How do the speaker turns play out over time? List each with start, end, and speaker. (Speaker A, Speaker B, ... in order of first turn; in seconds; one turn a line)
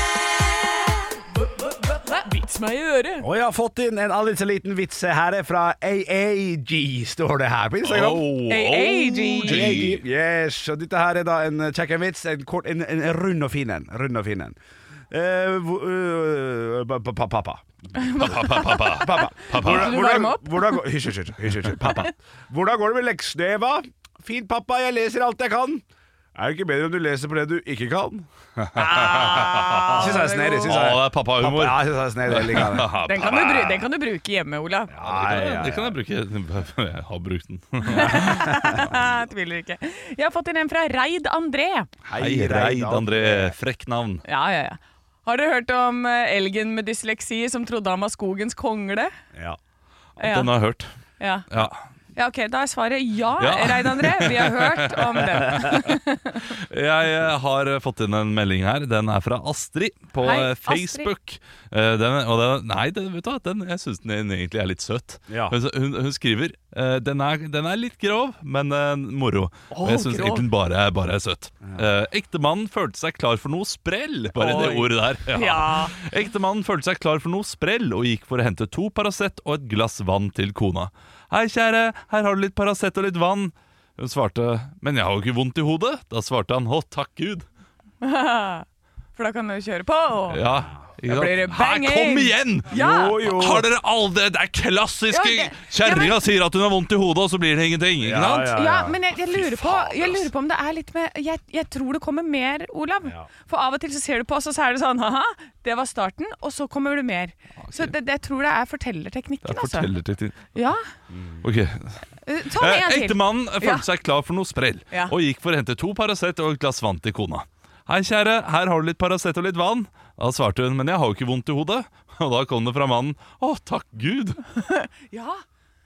Speaker A: 1.8-3.3
Speaker B: 3.2-8.3
Speaker C: 7.8-10.0
Speaker A: 8.5-9.9
Speaker B: 9.4-14.6
Speaker B: 15.1-17.7
Speaker A: 18.0-20.8
Speaker C: 18.2-20.0
Speaker B: 18.8-25.8
Speaker B: 26.4-32.9
Speaker C: 28.6-33.8
Speaker A: 29.9-30.7
Speaker A: 33.1-35.0
Speaker B: 34.9-36.0
Speaker C: 35.0-38.6
Speaker A: 37.9-41.9
Speaker B: 42.0-43.5
Speaker C: 42.2-44.2
Speaker A: 44.3-49.1
Speaker C: 50.2-50.9
Speaker A: 50.2-50.5
Speaker A: 51.2-51.5
Speaker C: 51.5-51.8
Speaker A: 52.2-56.5
Speaker C: 53.4-55.9
Speaker C: 56.5-87.4
Speaker A: 60.2-61.1
Speaker B: 65.3-65.6
Speaker A: 69.7-70.5
Speaker A: 74.4-75.9
Speaker A: 88.0-90.4
Speaker C: 90.3-98.6
Speaker A: 91.1-93.2
Speaker B: 92.7-93.7
Speaker A: 95.1-96.2
Speaker B: 98.0-99.0
Speaker A: 98.5-109.9
Speaker B: 99.7-100.1
Speaker C: 107.6-107.9
Speaker C: 109.4-110.5
Speaker A: 110.5-110.8
Speaker B: 111.1-111.5
Speaker C: 111.4-112.0
Speaker A: 112.2-113.8
Speaker C: 112.6-124.4
Speaker A: 124.6-125.4